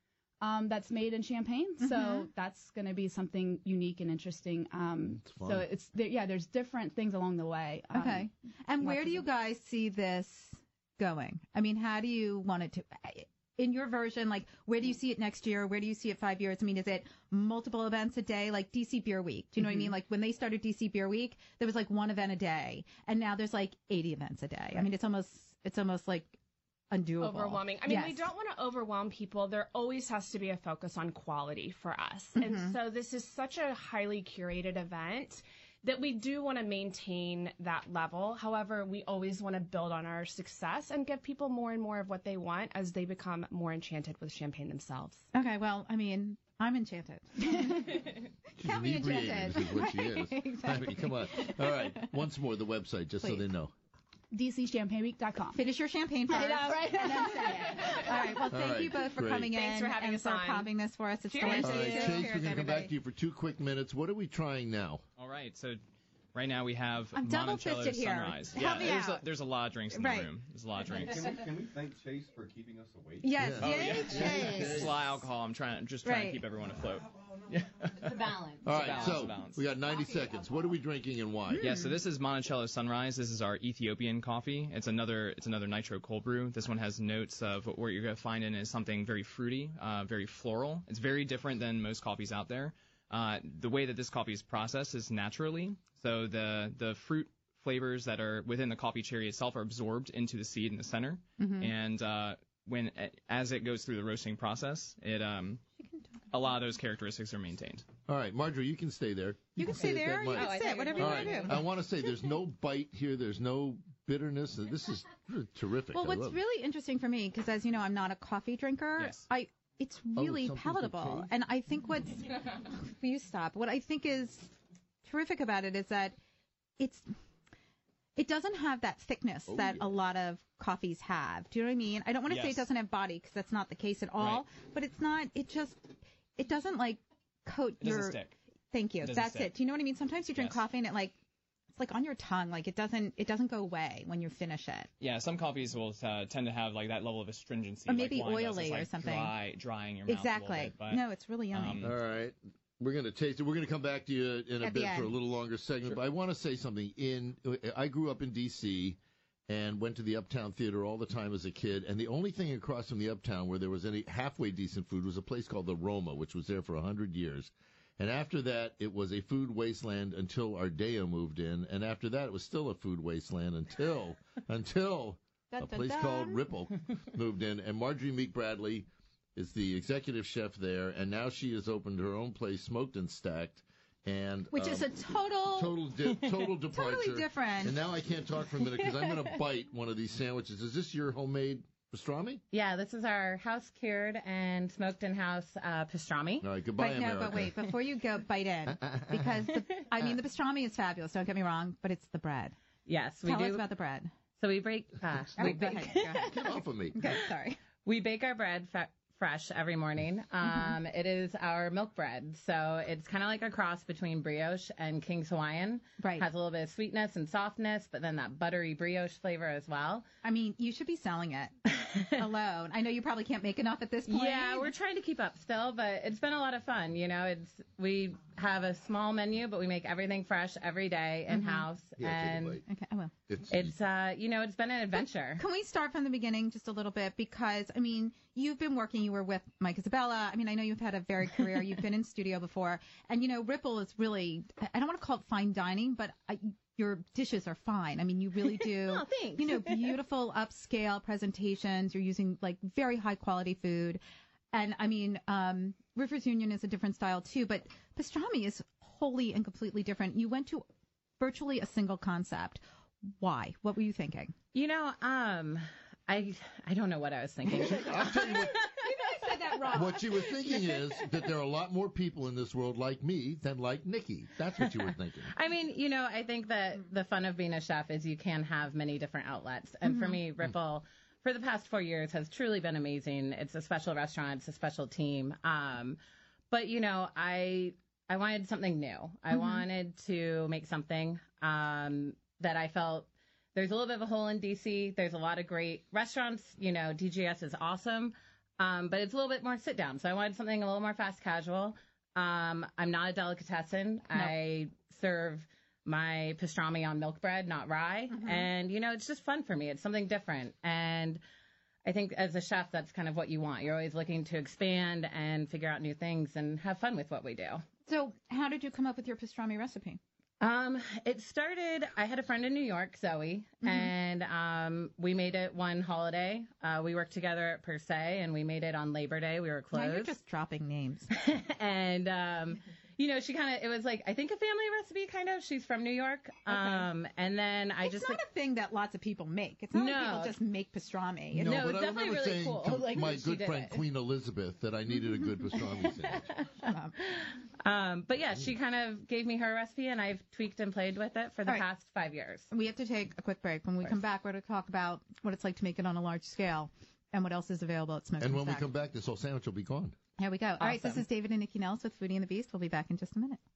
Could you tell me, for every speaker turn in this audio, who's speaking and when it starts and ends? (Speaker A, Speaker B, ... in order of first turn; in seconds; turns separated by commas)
Speaker A: 0.4-9.3, Speaker B: 1.8-2.3, Speaker C: 5.2-5.7, Speaker B: 7.9-26.4, Speaker B: 26.9-28.3, Speaker D: 27.2-45.3, Speaker B: 32.4-32.8, Speaker B: 45.3-48.1, Speaker C: 48.6-53.7, Speaker B: 48.6-52.1, Speaker A: 54.3-55.6, Speaker B: 55.5-62.9, Speaker A: 56.3-58.0, Speaker C: 58.5-59.5, Speaker D: 59.5-60.7, Speaker D: 61.3-62.3, Speaker C: 61.5-65.0, Speaker E: 65.2-65.8, Speaker E: 66.3-71.4, Speaker B: 67.1-69.2, Speaker B: 69.9-70.3, Speaker F: 70.8-74.8, Speaker B: 73.2-74.9, Speaker C: 73.4-74.9, Speaker E: 73.7-79.6, Speaker B: 76.0-76.4, Speaker G: 78.0-79.2, Speaker C: 78.6-81.7, Speaker B: 79.9-80.5, Speaker B: 81.5-82.0, Speaker E: 81.6-105.6, Speaker B: 101.4-101.7, Speaker B: 105.8-106.3, Speaker E: 106.3-107.8, Speaker C: 108.1-116.4, Speaker B: 109.5-111.6, Speaker G: 110.3-111.7, Speaker B: 115.9-126.2, Speaker E: 119.0-119.2, Speaker C: 120.2-121.3, Speaker B: 126.8-127.1, Speaker B: 128.2-138.2, Speaker C: 129.5-129.8, Speaker E: 132.3-132.7, Speaker E: 137.8-138.3, Speaker B: 138.7-141.2, Speaker E: 139.0-139.5, Speaker E: 140.3-140.6, Speaker B: 141.7-144.9, Speaker E: 145.0-151.9, Speaker B: 147.9-149.3, Speaker B: 150.1-151.9, Speaker C: 151.8-184.9, Speaker B: 154.6-155.1, Speaker B: 175.5-176.4, Speaker B: 184.5-185.7, Speaker C: 185.6-192.4, Speaker B: 186.7-187.8, Speaker G: 188.8-189.3, Speaker G: 192.5-196.4, Speaker C: 196.4-197.6, Speaker B: 196.8-202.6, Speaker C: 198.7-199.3, Speaker G: 202.8-203.7, Speaker B: 203.2-204.1, Speaker G: 204.4-206.5, Speaker B: 205.3-207.6, Speaker C: 205.4-205.7, Speaker C: 206.2-207.1, Speaker G: 207.8-220.0, Speaker B: 210.4-210.8, Speaker B: 216.0-216.2, Speaker B: 220.2-221.5, Speaker G: 221.7-222.2, Speaker B: 222.2-224.7, Speaker G: 224.1-232.6, Speaker B: 231.3-231.7, Speaker C: 232.0-232.6, Speaker B: 232.6-233.1, Speaker C: 233.3-233.8, Speaker G: 233.5-235.4, Speaker B: 235.4-254.0, Speaker G: 248.8-249.9, Speaker B: 254.5-260.6, Speaker B: 261.2-262.6, Speaker B: 263.2-264.3, Speaker G: 264.5-269.7, Speaker B: 267.5-268.2, Speaker C: 267.6-268.6, Speaker B: 268.8-270.8, Speaker C: 269.7-275.3, Speaker G: 275.3-286.0, Speaker B: 279.8-280.2, Speaker G: 286.5-311.2, Speaker B: 289.3-289.6, Speaker B: 308.1-308.5, Speaker G: 311.9-317.6, Speaker B: 317.9-320.0, Speaker G: 320.4-330.2, Speaker B: 323.6-323.9, Speaker B: 329.7-331.1, Speaker G: 331.1-338.2, Speaker B: 336.5-336.9, Speaker B: 337.8-341.6, Speaker G: 339.7-340.4, Speaker C: 341.4-346.3, Speaker G: 341.4-343.8, Speaker G: 345.8-352.5, Speaker B: 346.6-346.9, Speaker B: 352.5-358.7, Speaker C: 358.2-359.9, Speaker B: 360.2-363.4, Speaker G: 360.6-361.0